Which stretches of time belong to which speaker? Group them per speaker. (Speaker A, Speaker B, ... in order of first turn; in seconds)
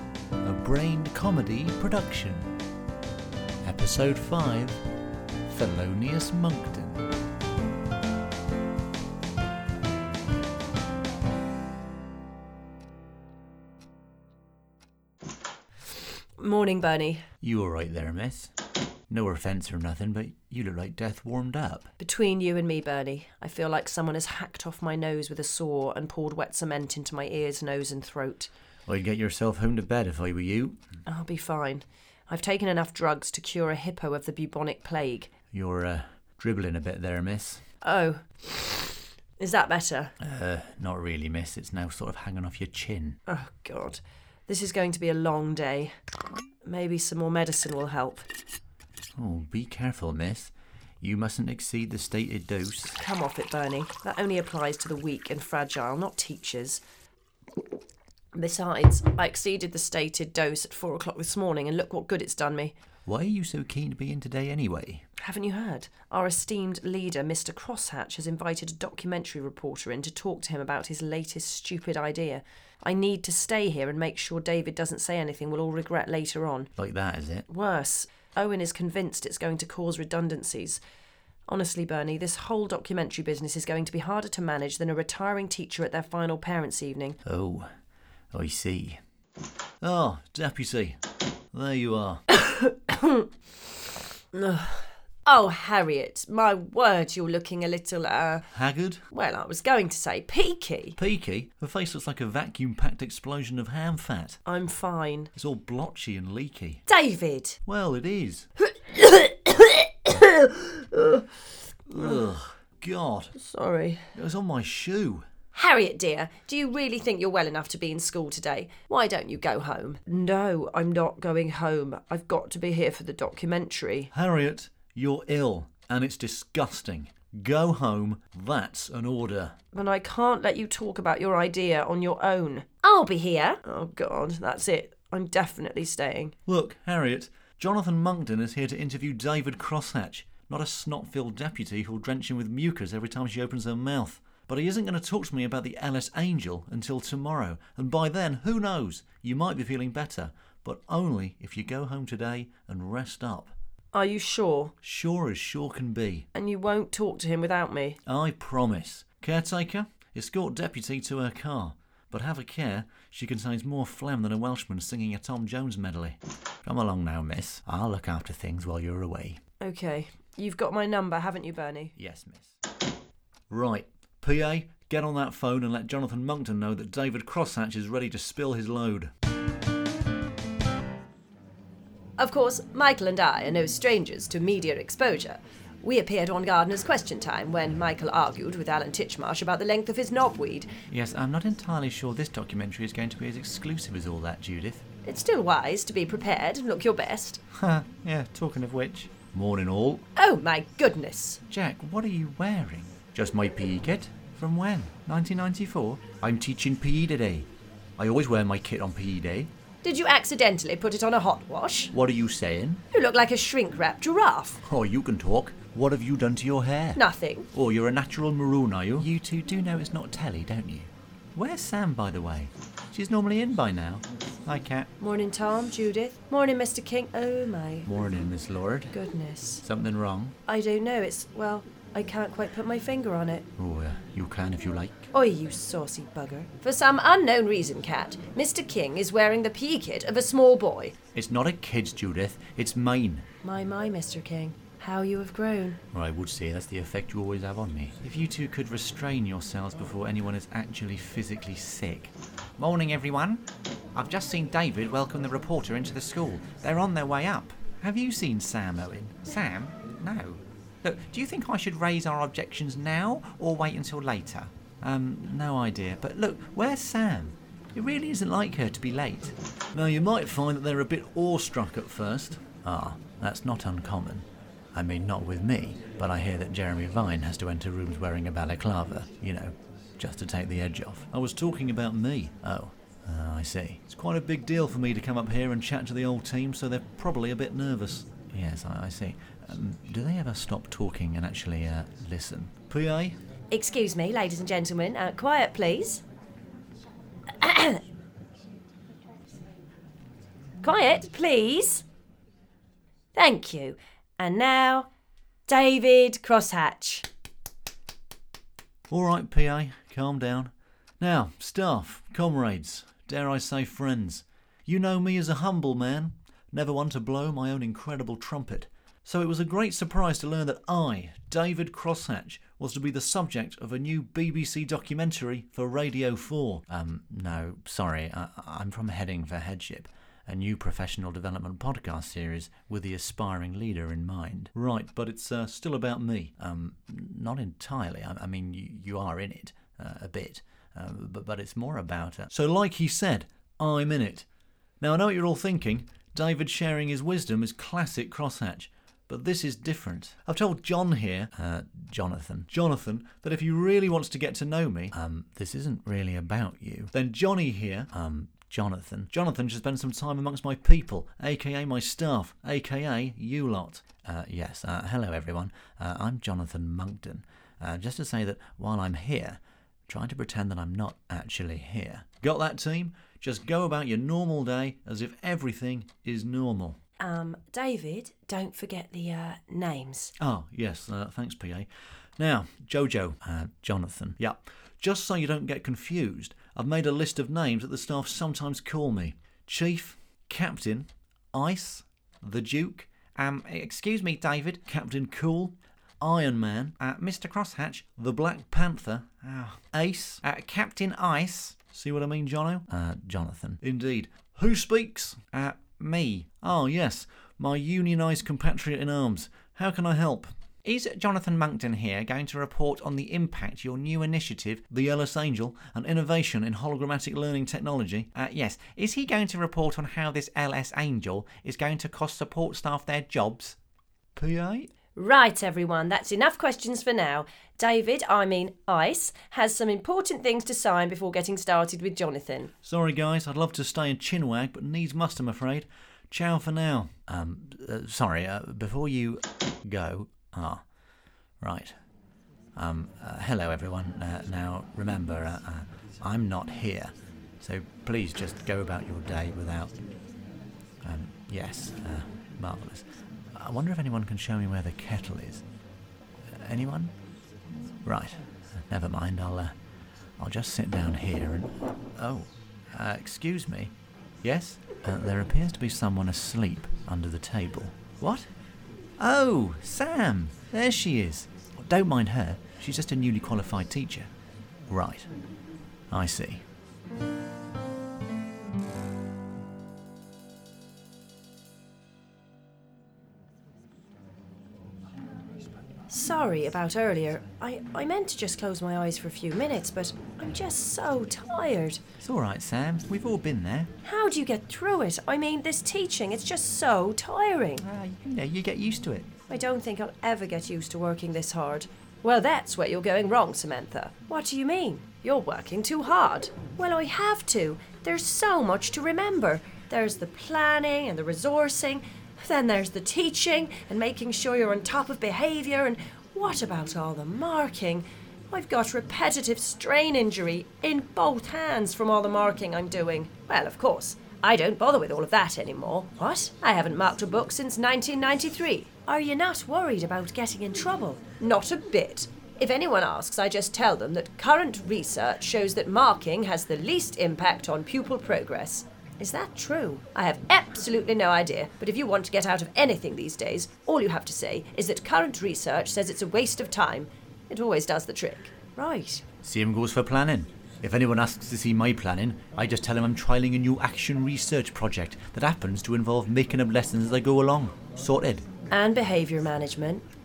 Speaker A: 0.4-2.5, 3.6-4.8, 5.5-7.0, 17.4-18.5, 19.1-21.9, 28.9-30.8, 35.5-37.6, 40.2-43.2, 49.2-53.0, 63.0-65.0, 76.8-77.5, 87.2-87.7, 88.3-89.0, 89.8-91.0, 91.5-92.2, 98.5-99.0, 101.0-104.4, 105.3-106.8, 107.7-108.5, 111.9-113.3, 114.1-115.2, 124.1-129.5, 136.4-153.5, 154.8-156.3, 158.1-169.4, 172.0-172.6, 173.5-179.1, 190.9-194.8, 197.5-200.0, 201.5-209.5, 211.9-212.8, 214.6-217.0, 217.5-224.9, 227.9-228.9, 229.6-230.3, 233.6-235.1, 241.1-243.2, 245.9-293.1, 308.9-344.2, 344.8-376.8, 380.2-423.6, 424.1-424.7, 432.6-440.6, 441.4-441.7, 442.6-449.7, 450.8-455.4, 456.4-456.9, 457.8-459.5, 460.2-468.3, 469.0-474.1, 474.7-475.1, 475.9-476.4, 492.0-493.7, 497.6-499.1, 549.2-558.2
Speaker B: 16.4-17.2, 22.0-28.5, 31.1-35.3, 37.8-40.1, 43.2-45.9, 46.6-48.3, 53.0-56.8, 58.3-62.7, 65.2-76.7, 77.5-80.8, 81.5-87.2, 92.3-93.3, 94.3-98.5, 99.1-101.0, 104.5-105.3, 106.9-107.6, 108.7-111.4, 111.9-112.2, 113.3-114.0, 115.5-124.1, 129.7-136.3, 153.9-154.7, 156.3-158.0, 169.6-171.9, 182.2-190.7, 195.0-197.4, 200.2-201.4, 209.8-211.9, 212.9-214.6, 216.9-217.5, 225.0-227.9, 228.9-229.6, 230.5-233.4, 235.1-240.9, 243.4-245.8, 293.5-296.0, 297.4-297.8, 300.6-301.8, 303.1-304.9, 305.5-307.1, 377.0-380.1, 424.9-432.5, 485.9-491.8, 493.8-497.6, 499.3-549.0, 558.5-559.8